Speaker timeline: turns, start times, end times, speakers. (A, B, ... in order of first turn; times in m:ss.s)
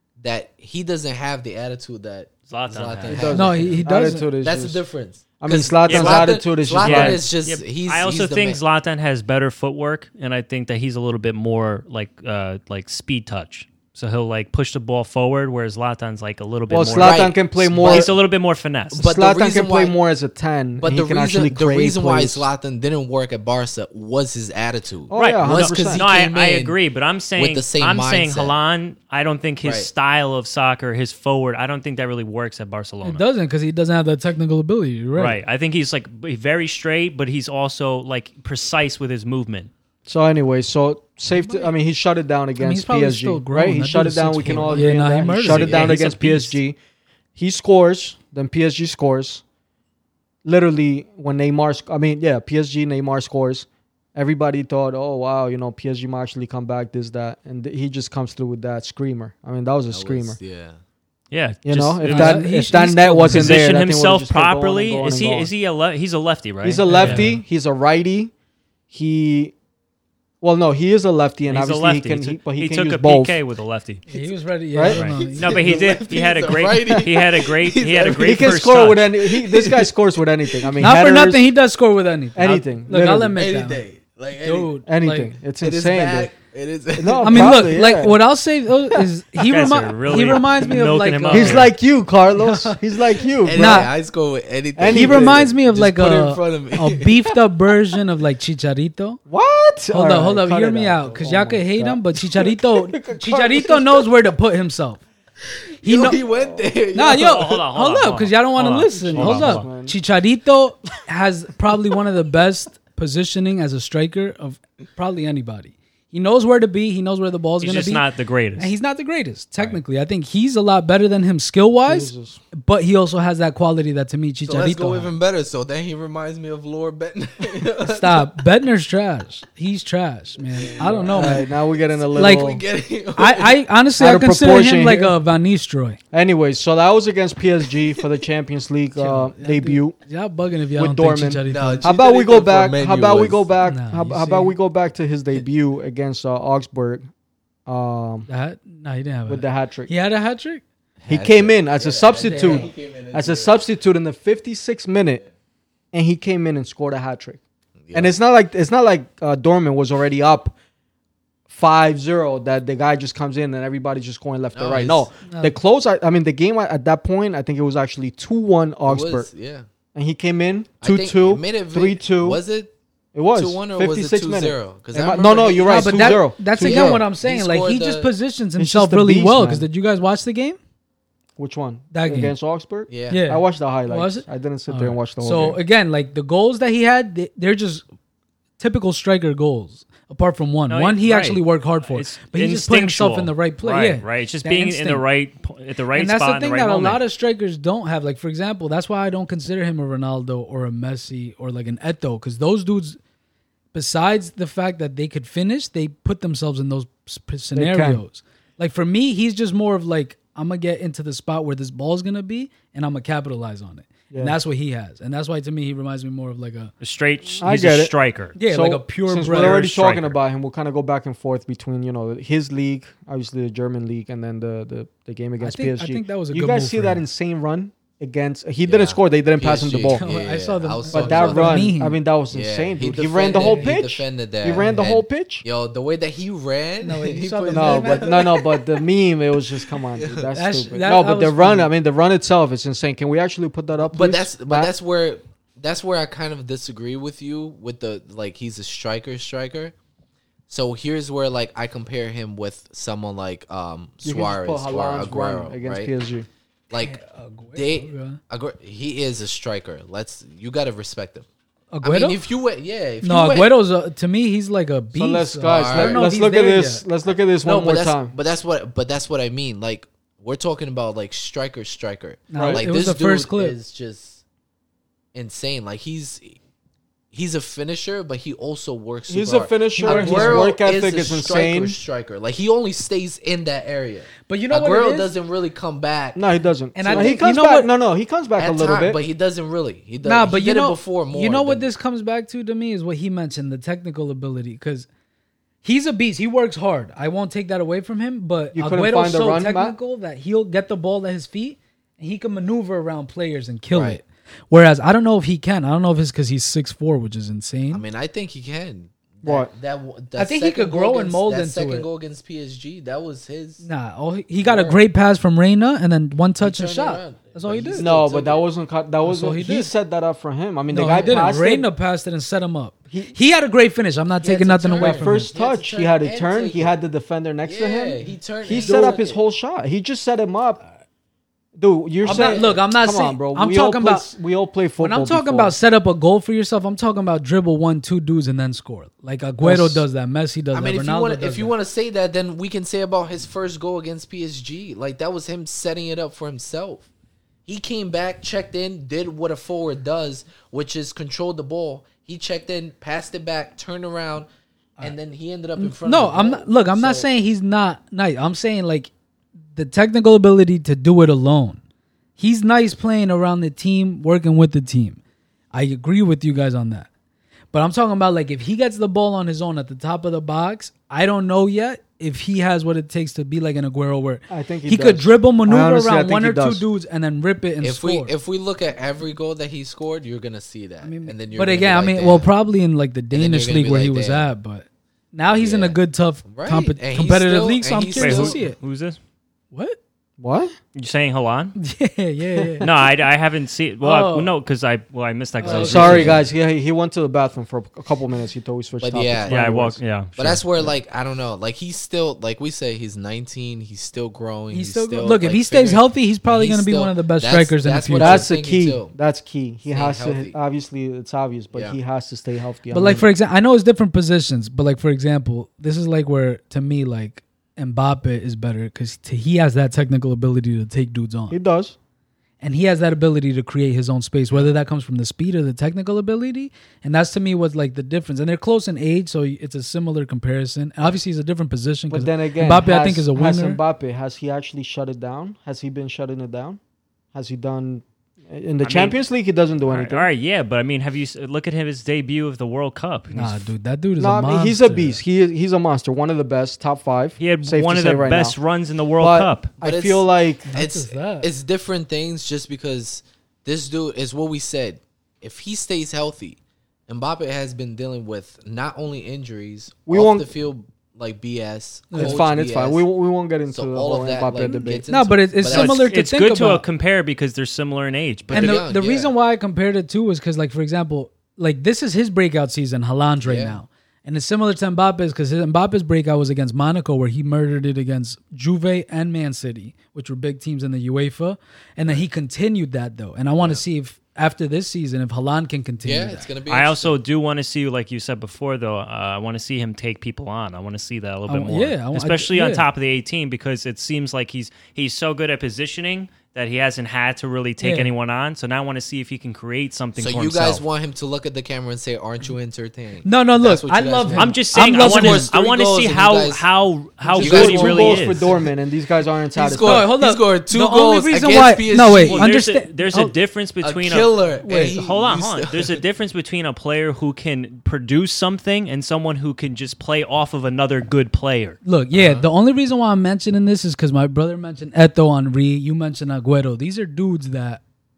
0:00.2-0:03.9 A
0:02.5-0:03.4 B
0:03.1-0:04.8 C
0:03.3-0:04.3 D
0:04.4-0:08.6 A
0:05.4-0:07.2 C
0:05.9-0:19.0 B
0:16.7-0:18.1 C
0:16.9-0:18.1 A
0:18.9-0:20.0 A
0:19.0-0:22.5 C
0:20.8-0:26.8 A
0:25.1-0:26.2 C
0:25.2-0:33.2 B
0:27.4-0:28.6 A
0:29.6-0:29.9 A
0:33.0-0:35.4 D
0:35.2-0:39.7 B
0:40.1-0:46.8 C
0:41.3-0:41.7 D
0:42.6-0:46.6 D
0:44.5-0:44.9 A
0:45.4-0:45.9 A
0:47.4-0:49.4 C
0:50.4-1:00.4 C
0:59.9-1:00.8 A
1:01.3-1:02.4 B
1:01.6-1:05.5 C
1:02.1-1:03.6 D
1:03.2-1:07.3 B
1:06.6-1:08.3 C
1:06.9-1:07.4 D
1:08.9-1:09.6 C
1:10.4-1:13.4 C
1:11.5-1:14.0 B
1:14.1-1:15.7 D
1:14.7-1:15.1 C
1:14.9-1:19.1 B
1:15.2-1:18.6 A
1:18.2-1:21.5 C
1:19.2-1:19.9 A
1:20.5-1:20.9 A
1:20.8-1:23.8 D
1:22.4-1:23.4 C
1:23.4-1:24.8 A
1:24.4-1:25.4 D
1:24.9-1:26.3 C
1:25.6-1:27.6 A
1:27.0-1:28.2 C
1:27.2-1:31.7 D
1:29.4-1:31.7 B
1:31.3-1:33.9 C
1:32.4-1:32.8 D
1:33.4-1:37.4 A
1:33.5-1:33.9 D
1:34.8-1:35.6 C
1:34.9-1:39.2 D
1:39.3-1:44.1 C
1:39.9-1:45.0 D
1:45.7-1:47.6 A
1:45.8-1:46.2 D
1:46.9-1:58.0 D
1:47.2-1:49.7 B
1:48.9-1:50.0 C
1:57.6-1:58.7 B
1:58.6-2:05.1 D
2:01.9-2:02.4 C
2:04.4-2:08.5 A
2:07.9-2:11.5 D
2:10.5-2:13.6 A
2:10.8-2:12.6 C
2:12.2-2:12.5 D
2:13.2-2:16.0 D
2:14.0-2:15.2 C
2:16.1-2:20.0 C
2:19.0-2:21.9 D
2:20.8-2:27.1 C
2:21.5-2:23.5 A
2:23.6-2:24.5 D
2:27.7-2:28.3 C
2:28.3-2:30.6 D
2:29.3-2:29.9 C
2:31.0-2:33.7 A
2:31.1-2:35.2 C
2:32.2-2:32.7 D
2:35.9-2:37.4 C
2:37.8-2:38.1 A
2:37.9-2:40.6 C
2:41.5-2:49.3 C
2:44.5-2:45.1 A
2:45.2-2:45.6 D
2:48.8-2:49.7 A
2:50.0-2:52.4 C
2:50.8-2:52.7 A
2:53.1-2:57.1 C
2:53.3-2:58.2 A
2:55.7-3:00.6 D
2:58.6-2:59.7 C
3:01.4-3:05.6 C
3:01.9-3:02.3 D
3:02.9-3:03.2 A
3:03.1-3:07.8 D
3:08.6-3:15.0 D
3:10.7-3:17.0 B
3:15.9-3:23.0 D
3:23.7-3:36.7 D
3:27.5-3:28.0 C
3:34.1-3:34.4 C
3:36.8-3:38.4 B
3:37.4-3:50.0 C
3:38.4-3:40.0 D
3:45.4-3:47.0 D
3:48.7-3:51.7 A
3:49.9-3:52.0 D
3:50.9-3:55.4 C
3:52.3-3:58.8 A
3:53.4-3:53.7 D
3:56.8-3:58.4 D
3:57.5-4:04.7 C
3:59.9-4:00.3 A
4:00.3-4:01.7 D
4:03.9-4:09.7 A
4:10.5-4:15.9 A
4:14.0-4:16.3 C
4:16.7-4:17.0 A
4:16.8-4:18.2 D
4:17.5-4:21.3 A
4:21.7-4:22.2 D
4:21.8-4:23.5 A
4:23.0-4:26.9 D
4:24.9-4:28.2 C
4:25.5-4:26.0 A
4:27.4-4:34.2 A
4:32.3-4:33.6 D
4:32.4-4:32.6 C
4:35.1-4:36.4 A
4:37.1-4:46.2 A
4:39.1-4:41.8 C
4:39.8-4:40.6 D
4:44.3-4:45.1 D
4:46.2-4:49.0 C
4:46.8-4:47.7 D
4:46.9-4:47.2 A
4:48.4-4:51.7 A
4:50.0-4:54.9 D
4:55.6-5:07.8 D
4:58.5-4:59.8 C
5:03.7-5:04.0 A
5:07.7-5:13.6 A
5:09.2-5:09.5 C
5:10.2-5:11.9 D
5:13.6-5:17.9 D
5:14.4-5:14.8 A
5:16.4-5:18.4 A
5:17.8-5:21.7 C
5:19.0-5:19.7 D
5:20.7-5:25.3 D
5:21.0-5:21.3 A
5:22.9-5:23.2 C
5:24.2-5:26.8 A
5:24.8-5:30.6 C
5:27.4-5:29.2 A
5:31.6-5:35.6 C
5:32.0-5:32.5 A
5:32.1-5:34.1 D
5:34.8-5:41.5 D
5:39.4-5:39.8 C
5:40.5-5:46.9 A
5:47.4-5:54.3 A
5:54.8-5:57.1 A
5:55.6-5:58.9 D
5:59.6-6:01.6 D
6:02.2-6:05.0 D
6:05.5-6:06.9 D
6:07.5-6:18.1 D
6:14.3-6:16.7 C
6:17.6-6:22.3 A
6:20.8-6:28.6 D
6:23.1-6:24.3 A
6:25.4-6:28.4 A
6:28.0-6:29.0 B
6:29.5-6:29.8 D
6:30.2-6:30.5 C
6:30.8-6:31.6 B
6:31.6-6:32.7 D
6:32.4-6:32.6 C
6:32.6-6:36.2 B
6:33.8-6:34.4 D
6:35.4-6:36.3 D
6:35.4-6:36.2 A
6:35.6-6:39.8 C
6:38.8-6:39.4 A
6:39.3-6:40.4 B
6:40.2-6:48.9 A
6:44.5-6:48.3 D
6:48.0-6:53.1 C
6:49.7-6:50.4 A
6:52.7-7:01.4 D
7:01.3-7:01.8 C
7:02.4-7:13.6 D
7:11.9-7:16.6 C
7:17.1-7:20.1 C
7:18.6-7:19.0 B
7:19.7-7:23.5 B
7:23.2-7:25.0 D
7:24.0-7:28.4 C
7:27.2-7:29.5 B
7:29.0-7:30.5 C
7:29.6-7:42.9 A
7:30.5-7:31.3 D
7:39.9-7:40.3 C
7:41.9-7:42.3 D
7:42.0-7:44.8 C
7:43.5-7:45.9 A
7:44.9-7:46.6 D
7:45.5-7:48.6 B
7:48.3-7:49.1 A
7:48.3-8:06.3 D
7:53.2-7:53.6 A
8:05.8-8:07.0 A
8:06.5-8:20.6 B
8:11.3-8:12.6 D
8:17.6-8:17.9 D
8:20.0-8:26.4 A
8:23.0-8:25.3 D
8:24.1-8:28.2 B
8:27.0-8:28.3 D
8:27.2-8:29.9 C
8:27.2-8:28.4 A
8:29.4-8:32.3 A
8:29.6-8:33.1 D
8:32.0-8:41.6 B
8:33.6-8:35.8 A
8:34.4-8:34.8 D
8:41.6-8:47.6 D
8:41.9-8:42.3 A